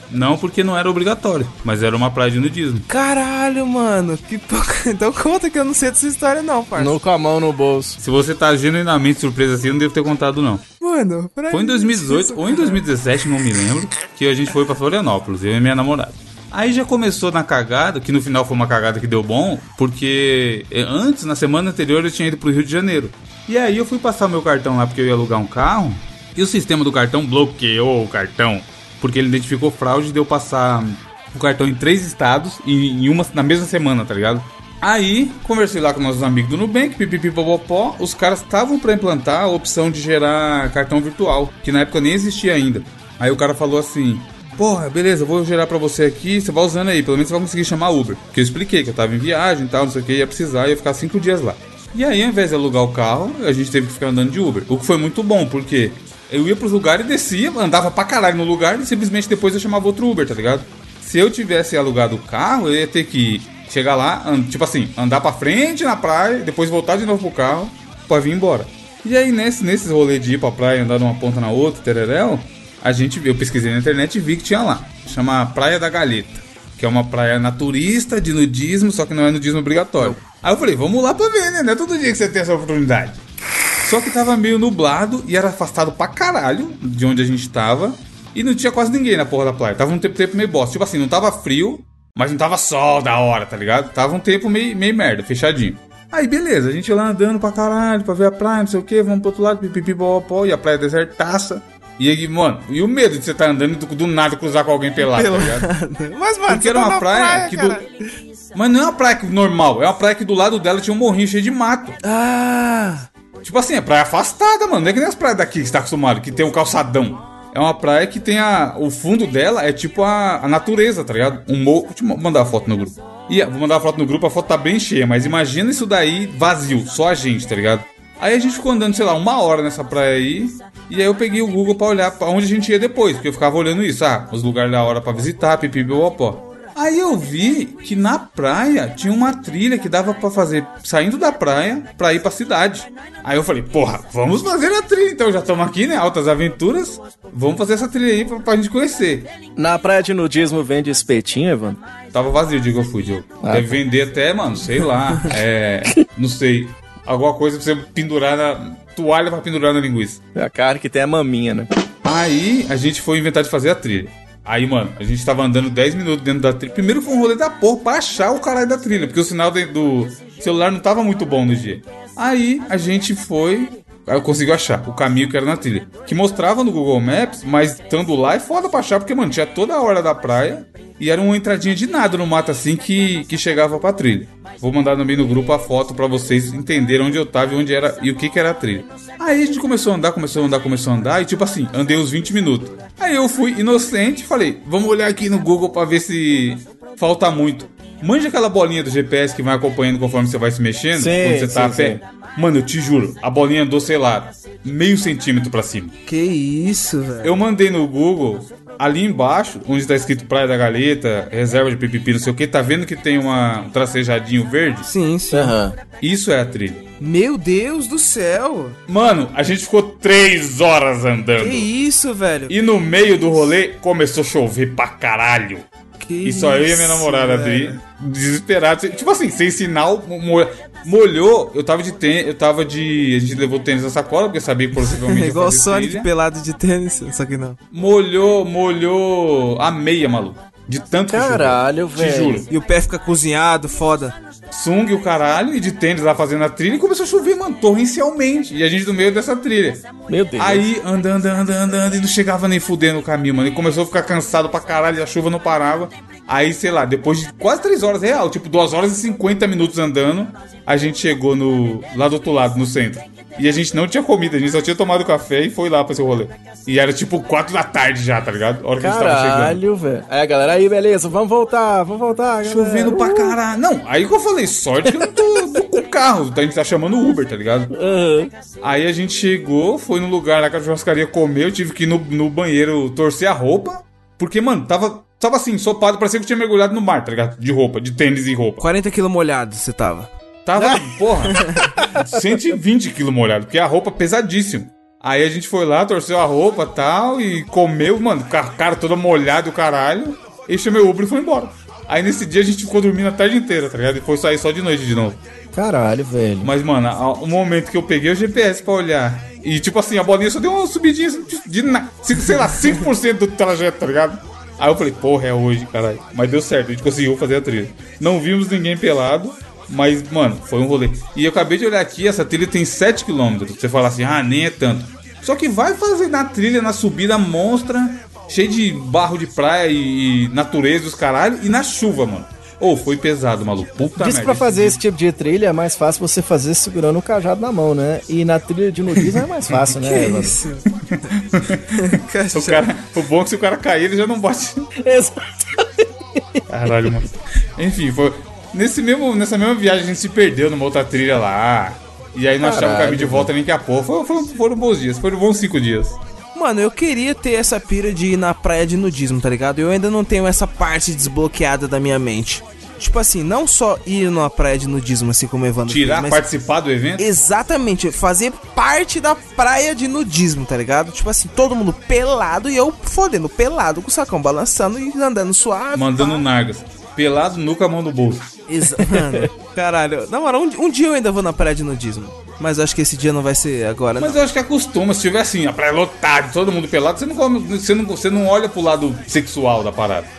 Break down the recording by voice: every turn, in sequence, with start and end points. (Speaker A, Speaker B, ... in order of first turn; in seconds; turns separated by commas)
Speaker A: 0.1-2.9, Speaker B: 2.9-7.0, Speaker C: 6.7-8.0, Speaker A: 8.0-10.6, Speaker B: 10.8-12.8, Speaker A: 11.5-83.2, Speaker A: 83.8-105.7, Speaker B: 105.0-108.1, Speaker A: 106.5-107.8, Speaker A: 108.5-112.0, Speaker B: 112.0-113.1, Speaker A: 113.4-149.3, Speaker C: 149.6-151.8, Speaker A: 152.1-160.2, Speaker C: 153.4-153.8, Speaker C: 160.3-161.7, Speaker A: 162.0-205.9, Speaker C: 200.9-202.0, Speaker B: 206.1-207.3, Speaker A: 207.2-214.9, Speaker B: 214.8-215.5, Speaker C: 215.3-215.8, Speaker A: 216.0-216.8, Speaker B: 217.0-218.8, Speaker A: 218.9-221.7, Speaker B: 221.4-222.5, Speaker A: 222.5-225.7, Speaker B: 226.0-227.8, Speaker A: 226.2-236.1, Speaker B: 234.8-237.6, Speaker A: 237.7-242.5, Speaker C: 241.1-242.4, Speaker B: 242.5-244.2, Speaker A: 244.5-249.8, Speaker C: 250.1-250.7, Speaker A: 250.4-269.6, Speaker C: 268.8-273.4, Speaker A: 272.4-277.7, Speaker C: 274.9-275.6, Speaker C: 277.7-278.3, Speaker A: 278.6-288.6, Speaker B: 288.6-290.1, Speaker A: 290.4-305.2, Speaker C: 305.5-306.5, Speaker A: 306.4-334.8, Speaker C: 334.0-340.4, Speaker B: 339.7-340.6, Speaker A: 340.9-344.7, Speaker B: 341.7-342.6, Speaker C: 344.8-346.4, Speaker A: 346.5-356.0, Speaker C: 352.4-353.3, Speaker B: 356.3-366.2, Speaker A: 365.7-367.0, Speaker B: 367.0-376.2, Speaker A: 375.7-378.3, Speaker B: 378.5-384.2, Speaker A: 384.0-390.1